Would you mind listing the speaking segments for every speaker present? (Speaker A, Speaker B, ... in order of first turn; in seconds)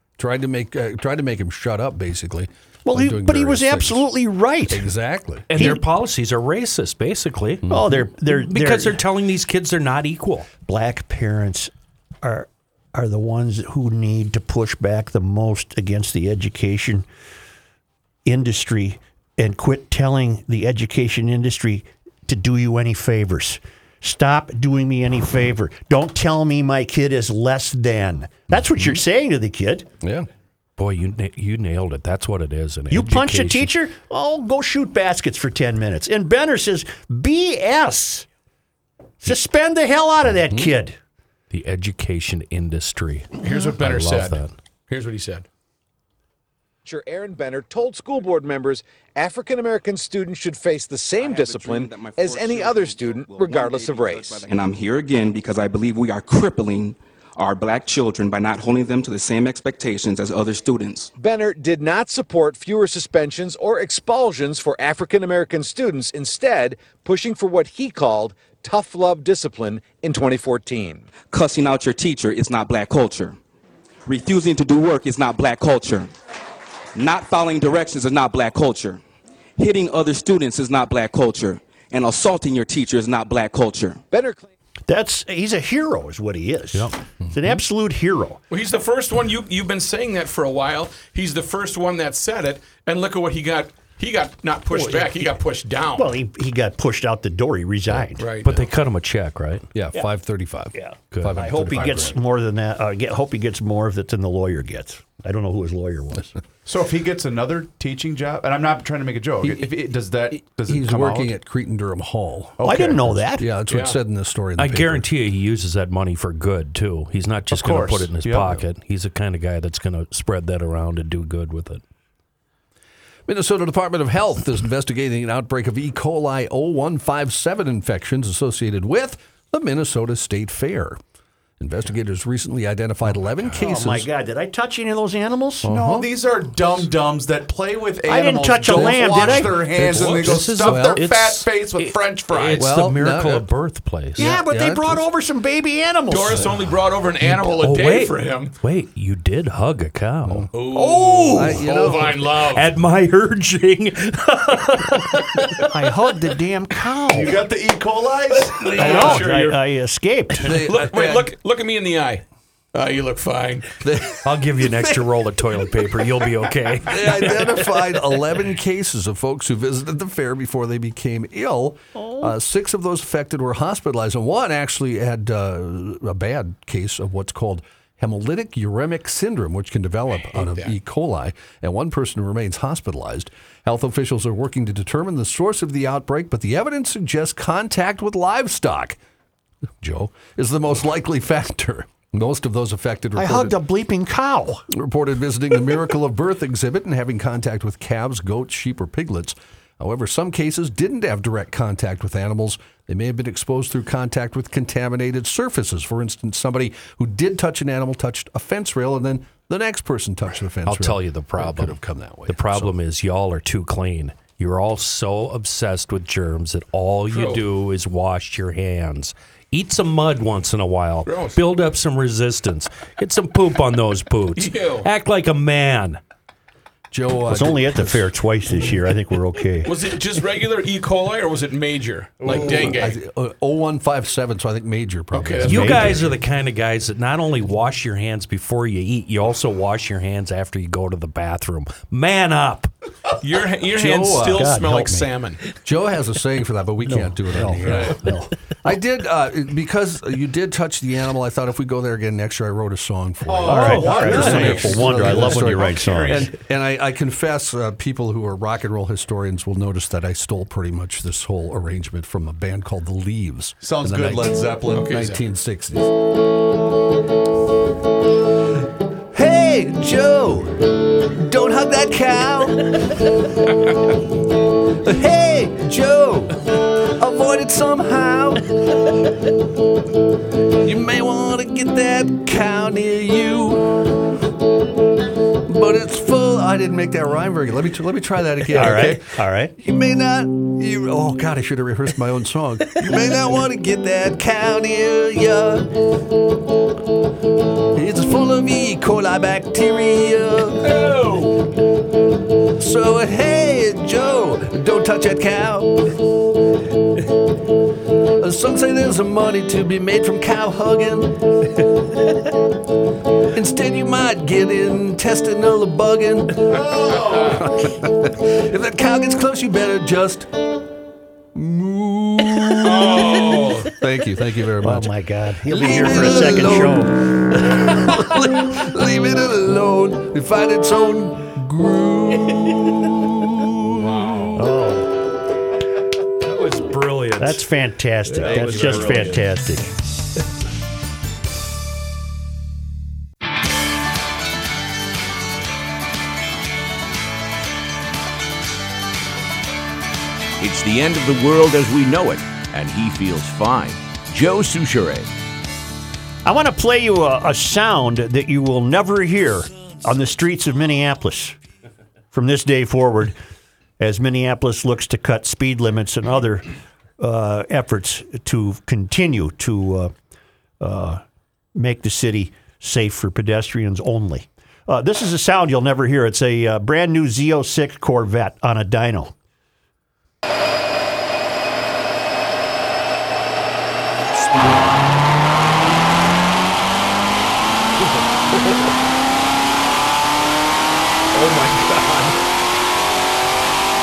Speaker A: 0.2-4.1, 4.7-5.7, 30.0-30.3, 99.8-102.2, 110.7-115.0, 123.3-131.0, 131.6-134.1, 135.6-136.1, 138.7-141.1, 142.6-143.5, 144.2-145.0, 151.3-152.2, 160.4-161.3, 163.8-164.2, 166.9-189.0, 189.8-193.6, 194.7-212.8, 226.9-228.1, 232.2-236.2, 243.7-244.6, 245.6-265.9, 269.1-273.0, 274.8-276.4, 277.0-278.5, 280.5-284.0, 285.4-295.8, 297.7-300.9, 302.6-305.9, 308.2-311.6, 313.3-320.3, 321.3-334.5
Speaker B: 2.9-4.9, 7.7-9.0, 10.7-11.7, 12.2-17.1, 18.3-29.9, 32.9-38.3, 39.2-41.0, 84.9-88.4, 94.8-95.2, 96.0-98.2, 100.8-106.3, 112.6-113.5, 133.6-135.7, 138.1-139.6, 144.2-146.4, 155.6-157.4, 158.8-160.6, 172.0-172.3, 193.2-194.7, 227.3-229.7, 244.4-245.1, 246.8-248.3, 253.5-256.3, 288.5-289.5, 324.6-327.3, 334.4-334.9, 337.2-339.7, 356.2-361.4, 362.1-363.2, 363.8-369.9, 370.6-371.0, 371.6-379.1
Speaker C: 5.5-10.5, 30.8-33.7, 41.5-44.5, 98.4-99.7, 101.1-101.4, 114.6-121.8, 139.8-144.3, 147.2-151.7, 152.4-155.6, 164.2-167.5, 210.7-226.0, 235.4-242.7, 336.2-337.4, 338.1-339.2, 391.2-392.0
Speaker D: 43.4-45.5, 88.5-96.2, 98.2-98.7, 113.7-114.0, 140.0-140.2, 146.1-148.6, 150.5-152.7, 158.5-159.6, 160.4-163.8, 180.3-180.7, 217.1-217.4, 221.1-221.4, 224.3-224.9, 229.6-233.0, 235.1-236.0, 243.2-245.4, 247.7-247.9, 253.5-256.3, 264.7-265.2, 300.6-301.4, 322.6-323.7, 333.8-334.3, 338.2-339.2
Speaker E: 46.9-54.5, 61.2-71.1, 84.1-84.5
Speaker F: 51.2-61.1, 71.2-73.4, 74.1-76.1, 77.0-79.0, 79.6-84.0
Speaker G: 106.7-111.3, 112.6-113.2, 117.5-118.6, 135.7-142.8, 157.1-159.3, 253.3-255.5, 263.6-265.0, 316.5-317.5
Speaker H: 350.4-355.1